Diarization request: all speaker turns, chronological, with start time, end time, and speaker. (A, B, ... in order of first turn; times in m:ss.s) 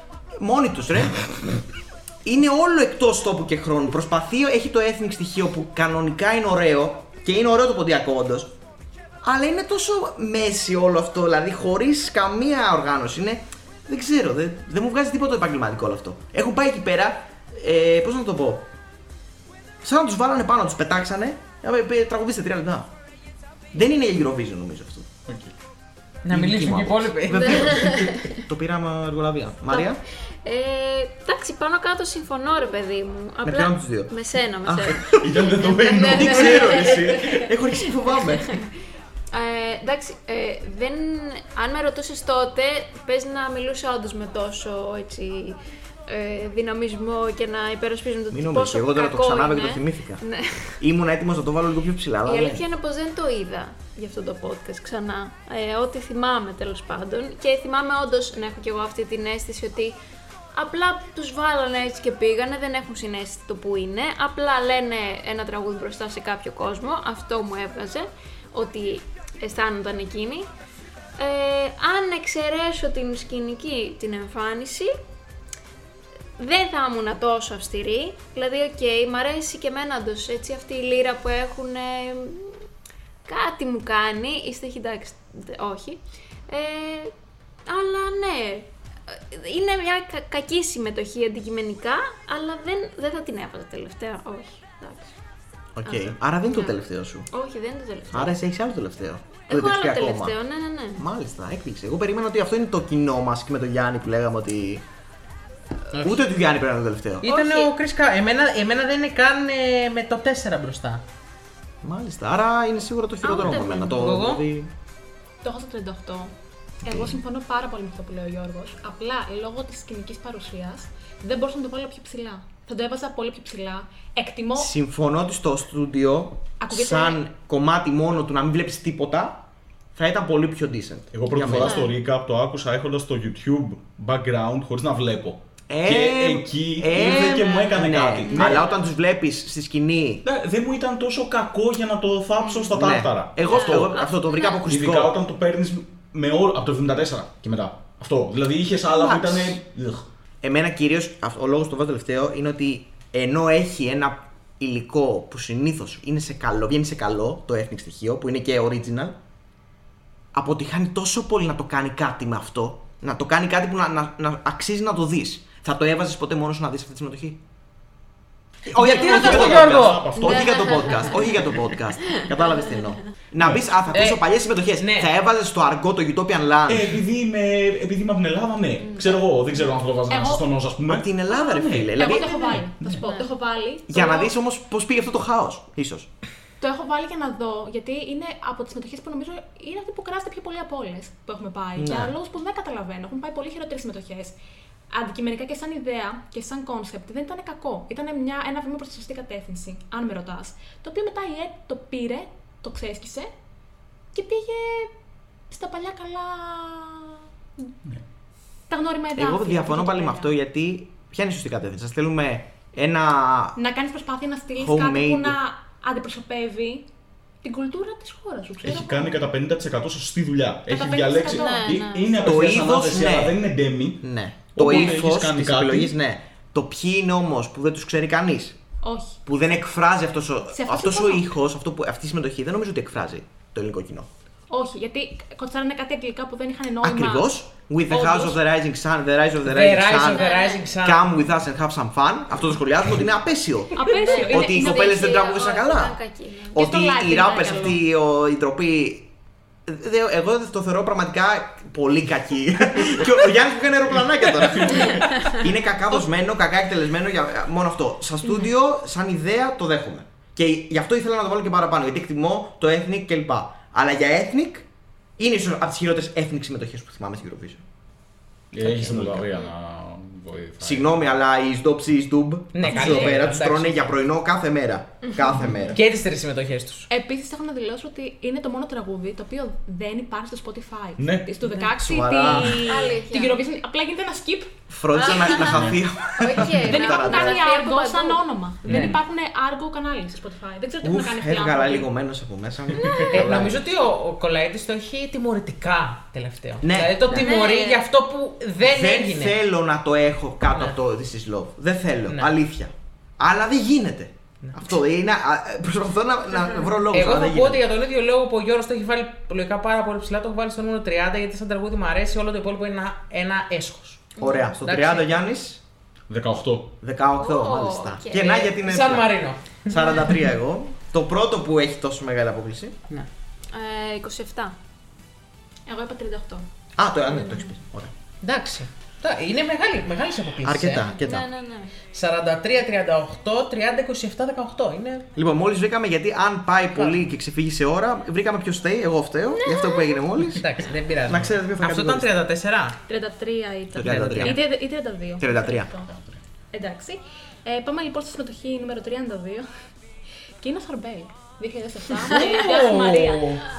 0:00.4-0:01.6 A
0:02.2-0:08.5 A
0:09.2-0:18.7 A
0:19.8-0:22.9 A
0:23.7-0:25.1 A
0:25.3-0:25.5 B
0:26.2-0:27.7 C
0:26.3-0:30.0 A
0:27.3-0:28.4 D
0:29.7-0:37.5 D
0:33.4-0:35.4 A
0:35.0-0:37.4 B
0:36.0-0:38.5 A
0:38.2-0:38.7 D
0:39.3-0:50.8 D
0:48.3-0:50.2 A
0:50.8-0:52.6 A
0:52.2-1:00.0 D
1:00.5-1:10.5 D
1:11.2-1:15.0 D
1:16.4-1:22.6 D
1:23.2-1:27.1 D
1:27.7-1:35.1 D
1:35.8-1:37.3 A
1:35.8-1:38.4 D
1:38.1-1:40.3 A
1:39.5-1:41.0 D
1:41.0-1:44.8 A
1:45.9-1:46.2 C
1:45.9-1:47.3 A
1:47.2-1:51.0 C
1:47.2-1:47.7 D
1:51.8-1:54.7 A
1:53.2-1:54.2 D
1:54.0-1:54.4 C
1:55.4-2:04.7 E
1:56.8-1:57.2 A
2:04.5-2:09.4 A
2:06.6-2:07.2 E
2:09.9-2:11.8 A
2:11.1-2:18.7 B
2:11.5-2:11.9 D
2:15.7-2:20.2 A
2:16.9-2:18.7 D
2:20.2-2:24.0 B
2:22.4-2:22.8 D
2:22.7-2:25.1 A
2:23.4-2:24.6 D
2:24.7-2:30.1 B
2:28.9-2:29.6 A
2:30.4-2:39.2 A
2:40.3-2:47.4 A
2:48.6-2:57.0 A
2:48.8-2:51.0 B
2:48.8-2:50.0 C
2:50.1-2:51.4 D
2:52.0-2:52.8 D
2:53.9-2:54.2 C
2:54.8-2:55.1 C
2:56.7-3:03.1 B
2:58.8-2:59.2 D
3:00.1-3:00.4 E
3:00.8-3:02.6 A
3:01.9-3:04.3 E
3:03.0-3:03.3 D
3:03.9-3:06.1 A
3:06.6-3:14.4 E
3:11.8-3:12.1 A
3:14.9-3:23.3 E
3:24.1-3:24.9 E
3:25.5-3:27.7 E
3:28.7-3:30.3 E
3:29.2-3:33.6 A
3:33.6-3:36.9 E
3:34.6-3:35.4 A
3:37.4-3:39.3 E
3:38.6-3:45.9 B
3:40.7-3:41.8 E
3:41.2-3:42.4 D
3:42.2-3:43.4 A
3:44.0-3:48.6 A
3:48.8-3:49.2 E
3:49.2-3:54.1 A
3:50.5-3:51.3 E
3:54.5-3:57.3 E
3:56.8-4:06.0 A
3:57.9-3:58.4 E
3:59.4-4:01.1 C
4:00.1-4:00.7 D
4:03.7-4:04.9 E
4:03.8-4:06.7 D
4:06.5-4:07.8 E
4:06.5-4:09.1 A
4:09.6-4:24.7 A
4:14.4-4:15.0 B
4:25.2-4:27.6 A
4:28.5-4:31.0 B
4:28.6-4:29.3 A
4:30.6-4:35.8 A
4:32.5-4:33.9 C
4:35.0-4:35.4 D
4:35.7-4:36.9 C
4:36.9-4:44.5 E
4:41.0-4:41.3 B
4:41.8-4:42.6 A
4:42.6-4:43.4 D
4:44.7-4:47.4 A
4:45.0-4:48.2 D
4:45.4-4:45.8 B
4:46.6-4:51.9 E
4:48.7-4:49.0 C
4:48.7-4:49.0 B
4:50.8-4:53.6 A
4:52.8-4:53.2 D
4:53.1-4:59.4 C
4:56.6-4:57.3 A
4:57.1-4:57.8 D
4:58.6-5:07.6 A
5:00.5-5:00.8 C
5:02.1-5:02.3 C
5:06.9-5:14.1 C
5:14.2-5:14.5 D
5:14.2-5:15.6 A
5:14.6-5:15.2 C
5:16.1-5:16.8 B
5:16.8-5:19.1 A
5:17.2-5:18.5 D
5:18.2-5:20.1 C
5:19.6-5:22.8 A
5:23.5-5:24.6 D
5:25.7-5:26.4 E
5:26.8-5:27.9 A
5:28.2-5:30.9 C
5:30.4-5:31.3 A
5:31.0-5:31.7 D
5:31.9-5:35.1 C
5:35.1-5:42.1 A
5:36.7-5:37.0 C
5:39.4-5:40.0 D
5:40.3-5:42.8 C
5:42.9-5:45.9 E
5:43.7-5:44.4 A
5:43.8-5:44.4 C
5:45.2-5:45.7 A
5:45.9-5:46.2 B
5:46.5-5:49.5 E
5:50.4-5:53.3 E
5:52.1-5:53.4 C